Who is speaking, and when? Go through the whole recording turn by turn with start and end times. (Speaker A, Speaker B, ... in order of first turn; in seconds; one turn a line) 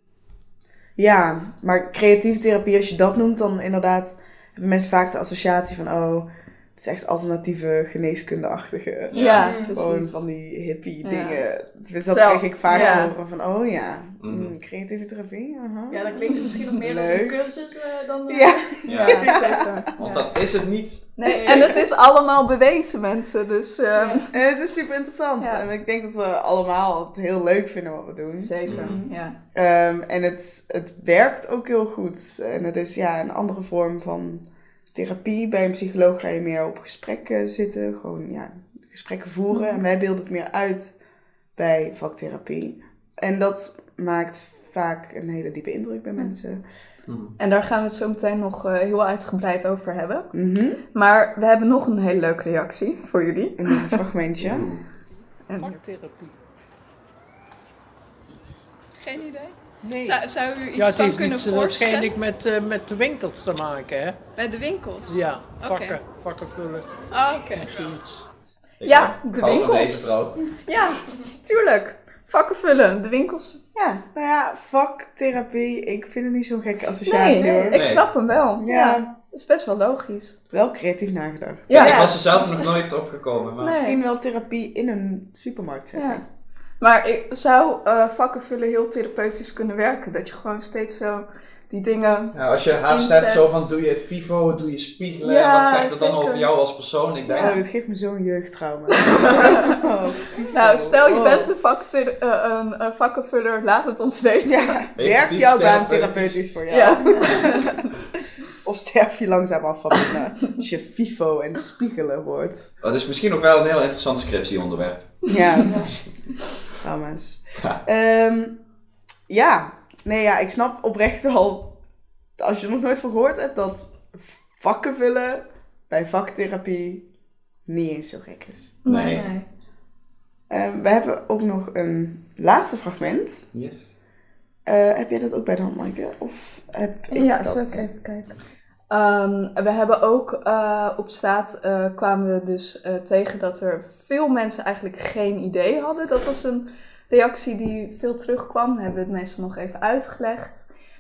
Speaker A: 1.0-17.5
Speaker B: 9.1-9.4
Speaker C: 9.1-10.2
Speaker D: 9.4-9.7
Speaker C: 11.0-11.4
Speaker C: 12.1-13.1
Speaker D: 12.7-13.1
Speaker B: 14.2-14.5
Speaker D: 15.9-19.6
Speaker A: 18.3-19.6
Speaker B: 18.9-19.2
Speaker C: 18.9-20.2
Speaker B: 20.0-21.1
Speaker C: 21.1-24.3
Speaker D: 21.2-21.8
Speaker D: 23.9-24.3
Speaker A: 24.3-28.5
Speaker C: 28.4-29.4
Speaker B: 28.6-28.9
Speaker D: 28.7-29.1
Speaker A: 29.5-40.9
Speaker A: 41.5-46.6
Speaker B: 47.1-47.3
Speaker C: 47.4-50.3
Speaker A: 50.3-50.8
Speaker C: 50.9-54.0
Speaker A: 53.6-54.7
Speaker B: 54.4-54.8
Speaker C: 55.5-55.8
Speaker E: 55.6-56.3
Speaker C: 59.0-62.1
Speaker E: 59.8-60.2
Speaker E: 60.7-64.2
Speaker C: 64.3-66.0
Speaker E: 65.1-68.2
Speaker C: 67.1-67.7
Speaker B: 68.8-70.6
Speaker C: 68.8-74.0
Speaker A: 74.1-77.8
Speaker C: 77.0-80.4
Speaker B: 77.7-78.0
Speaker A: 78.6-79.1
Speaker A: 80.5-82.0
Speaker C: 81.7-82.1
Speaker B: 81.7-83.8
Speaker D: 81.8-82.6
Speaker C: 83.6-84.0
Speaker A: 83.6-86.2
Speaker C: 85.9-86.2
Speaker C: 86.8-93.6
Speaker B: 92.3-97.5
Speaker C: 95.2-96.5
Speaker A: 97.3-101.5
Speaker C: 99.0-99.8
Speaker C: 100.5-104.8
Speaker A: 104.4-107.9
Speaker B: 105.0-106.4
Speaker C: 106.7-107.7
Speaker A: 108.5-112.7
Speaker B: 112.8-115.4
Speaker A: 115.3-115.9
Speaker D: 115.7-115.9
Speaker A: 116.7-118.6
Speaker A: 119.3-121.8
Speaker A: 122.4-127.0
Speaker A: 127.7-128.8
Speaker C: 128.8-129.2
Speaker B: 128.8-129.3
Speaker D: 129.1-129.4
Speaker A: 130.5-133.5
Speaker B: 133.5-133.9
Speaker A: 134.7-137.9
Speaker C: 137.1-138.3
Speaker C: 138.9-150.7